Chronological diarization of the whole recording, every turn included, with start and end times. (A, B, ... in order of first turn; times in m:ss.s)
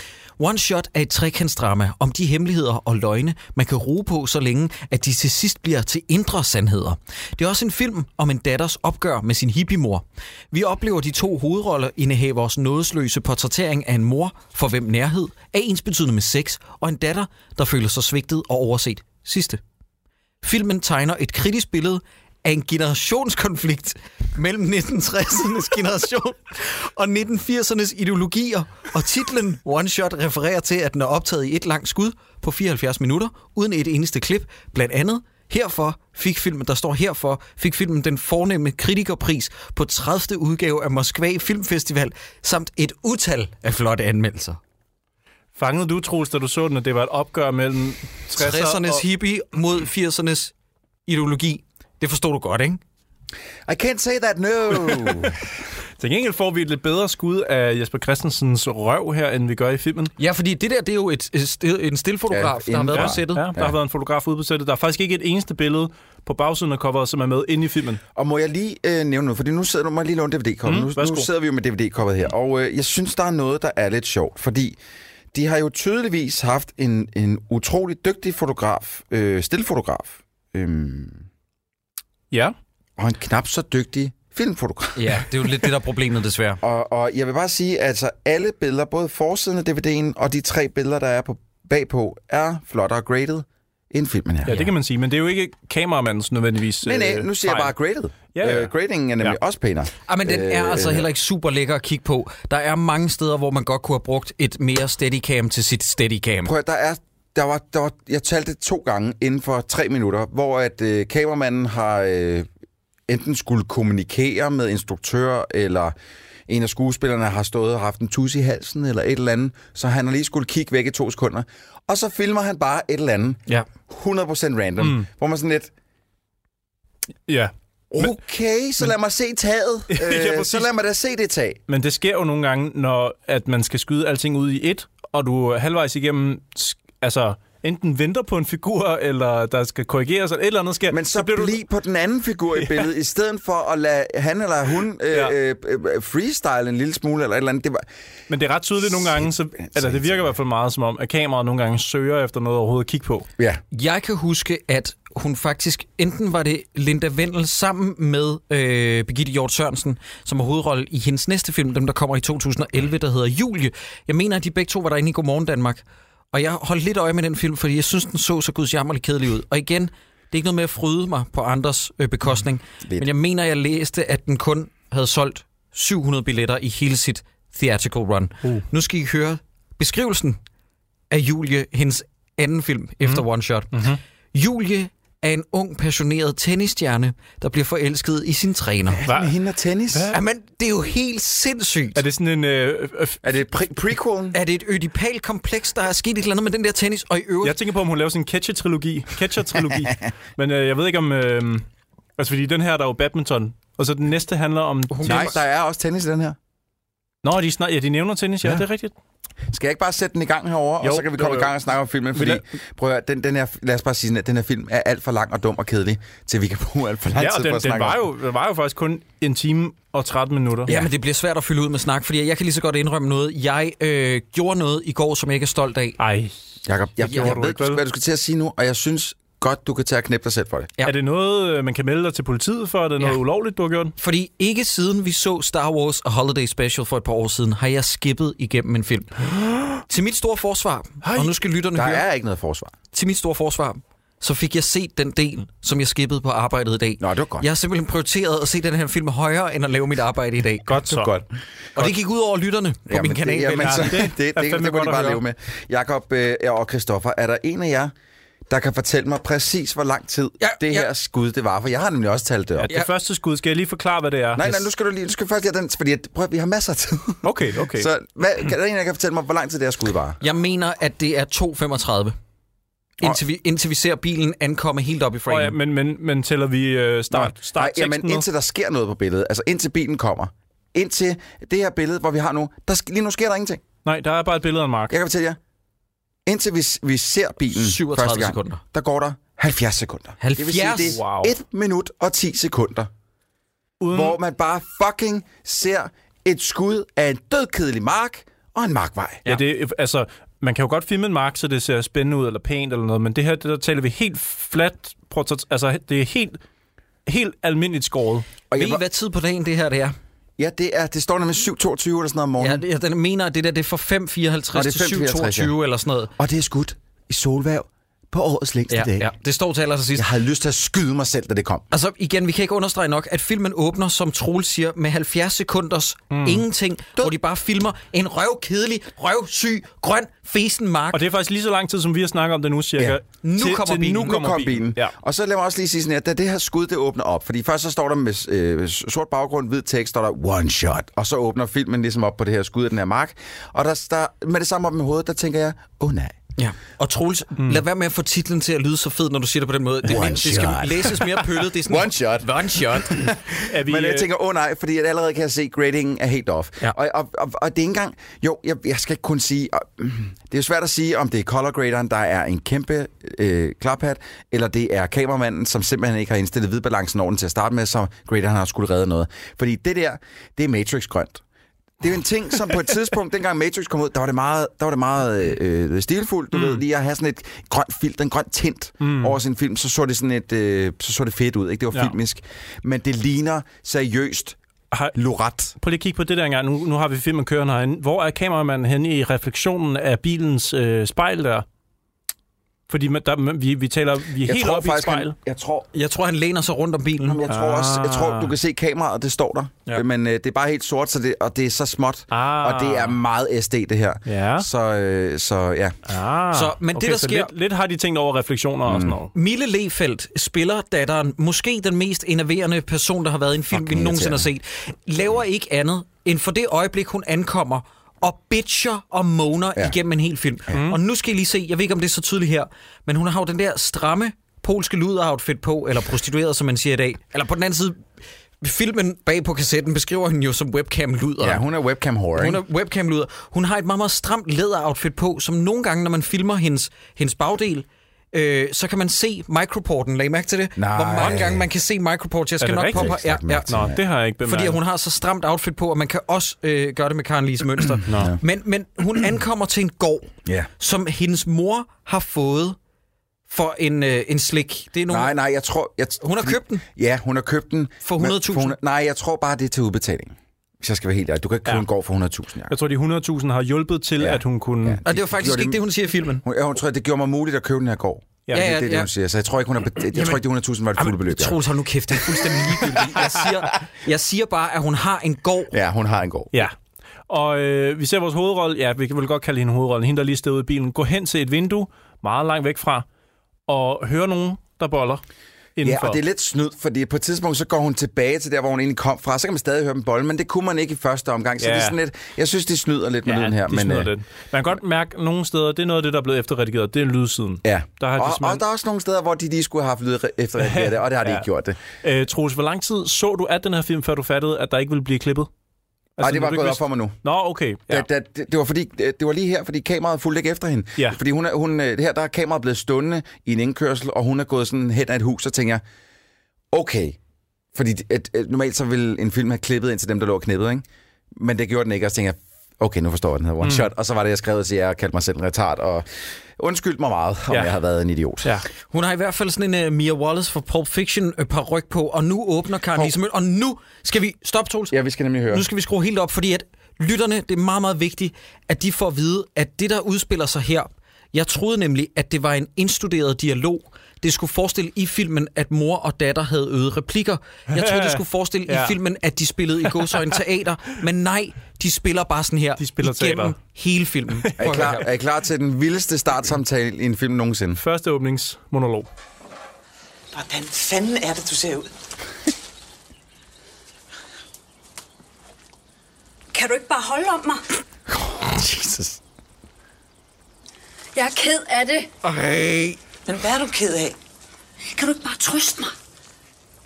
0:00.4-0:19.6 A
0:20.4-0:44.6 A
0:45.6-0:49.0 B
0:48.3-0:50.5 A
0:51.1-0:52.8 A
0:53.7-0:55.5 C
0:56.0-1:00.1 B
1:00.2-1:03.5 A
1:02.3-1:03.8 C
1:02.9-1:08.0 B
1:08.2-1:14.8 C
1:10.7-1:11.3 B
1:15.3-1:21.2 C
1:23.0-1:25.6 C
1:25.0-1:26.6 A
1:26.6-1:34.6 C
1:34.5-1:37.7 B
1:36.8-1:41.1 C
1:38.3-1:39.4 B
1:40.1-1:46.5 A
1:46.4-1:52.5 C
1:53.1-1:55.9 C
1:56.5-2:05.7 C
2:04.8-2:05.0 B
2:07.3-2:08.1 B
2:07.9-2:11.6 C
2:09.9-2:10.7 B
2:11.7-2:21.6 B
2:20.9-2:27.9 C
2:22.6-2:22.9 B
2:28.3-2:33.3 B
2:29.0-2:30.3 C
2:33.7-3:00.4 A
2:52.8-2:53.1 C
3:01.1-3:03.8 A
3:03.0-3:04.0 B
3:04.3-3:09.0 A
3:08.9-3:10.2 C
3:09.1-3:09.4 B
3:09.9-3:10.2 B
3:10.1-3:12.0 A
3:12.0-3:13.4 B
3:13.2-3:14.4 C
3:14.3-3:17.6 A
3:17.4-3:21.7 B
3:22.2-3:25.4 B
3:24.9-3:25.4 A
3:25.0-3:26.4 C
3:27.2-3:28.9 B
3:29.5-3:38.0 C
3:30.8-3:31.5 B
3:32.1-3:32.4 B
3:37.2-3:40.8 B
3:40.7-3:46.0 A
3:46.0-3:46.3 B
3:46.7-3:50.7 C
3:47.0-3:47.8 B
3:47.1-3:47.3 A
3:50.8-3:54.0 B
3:54.0-4:02.0 A
4:01.0-4:01.3 B
4:01.8-4:02.7 C
4:02.9-4:10.8 A
4:07.0-4:07.5 C
4:10.7-4:11.1 B
4:10.8-4:11.3 C
4:11.8-4:14.1 A
4:12.9-4:17.9 C
4:13.6-4:15.2 B
4:18.5-4:22.7 C
4:20.4-4:20.9 A
4:22.6-4:24.6 B
4:24.4-4:30.2 C
4:27.2-4:27.9 B
4:30.2-4:32.2 A
4:33.0-4:35.6 A
4:35.3-4:38.2 B
4:37.1-4:43.6 C
4:43.8-4:45.0 B
4:44.9-4:45.4 C
4:46.3-4:52.9 C
4:47.5-4:48.6 A
4:50.2-4:51.0 A
4:50.8-4:51.4 B
4:53.8-4:54.2 B
4:53.9-4:59.3 C
4:59.3-5:06.4 B
5:07.1-5:08.3 B
5:08.5-5:08.8 C
5:08.5-5:09.9 A
5:10.4-5:12.6 C
5:12.4-5:16.1 A
5:14.5-5:15.5 C
5:16.2-5:19.1 C
5:18.7-5:20.1 A
5:20.0-5:21.7 C
5:21.7-5:31.0 A
5:26.1-5:26.4 B
5:30.9-5:34.9 B
5:33.2-5:34.2 A
5:34.0-5:46.2 C
5:46.4-5:53.1 A
5:47.4-5:47.6 B
5:49.8-6:11.2 C
5:53.5-5:54.1 B
6:11.8-6:24.4 C
6:16.3-6:16.6 B
6:18.8-6:19.2 B
6:25.0-6:25.6 C
6:25.6-6:31.4 B
6:32.7-6:35.1 B
6:34.2-6:35.7 C
6:35.7-6:37.2 A
6:37.0-6:45.7 C
6:37.3-6:38.4 B
6:42.1-6:43.0 B
6:44.1-6:44.5 B
6:45.9-6:49.1 B
6:46.3-6:47.3 A
6:48.7-6:49.0 C
6:49.1-7:07.8 A
6:53.5-6:54.3 C
7:00.5-7:00.8 B
7:08.4-7:11.4 A
7:11.2-7:12.4 C
7:12.2-7:23.5 A
7:20.6-7:21.5 C
7:22.4-7:22.9 B
7:22.7-7:23.8 C
7:23.5-7:24.6 B
7:24.2-7:32.6 A
7:27.9-7:28.1 B
7:27.9-7:28.2 C
7:33.3-7:35.1 A
7:34.9-7:42.6 C
7:36.0-7:36.6 A
7:37.8-7:38.6 A
7:42.5-7:44.8 B
7:44.0-7:45.6 C
7:44.8-7:46.2 A
7:46.2-7:53.1 C
7:48.3-7:48.9 A
7:49.9-7:50.2 A
7:50.8-7:55.5 A
7:55.5-7:56.5 C
7:57.1-8:02.9 B
8:03.5-8:05.0 B
8:05.6-8:06.0 B
8:05.6-8:13.9 C
8:11.4-8:11.8 B
8:13.0-8:18.4 B
8:17.4-8:21.6 C
8:20.4-8:21.2 B
8:21.8-8:25.3 B
8:26.0-8:27.9 B
8:26.0-8:27.0 C
8:27.7-8:35.6 C
8:36.5-8:37.0 C
8:37.5-8:45.9 C
8:43.4-8:43.7 B
8:46.4-8:48.4 C
8:47.3-8:47.6 B
8:48.7-8:54.8 A
8:54.7-8:55.5 C
8:55.3-9:14.8 A
9:07.5-9:08.8 B
9:09.8-9:10.1 B
9:12.6-9:13.4 B
9:14.2-9:14.8 B
9:14.4-9:17.6 C
9:17.6-9:18.9 B
9:20.1-9:21.7 D
9:26.3-9:27.4 E
9:27.9-9:29.0 C
9:31.0-9:31.9 E
9:32.0-9:32.8 A
9:33.1-9:34.0 D
9:34.7-9:35.7 E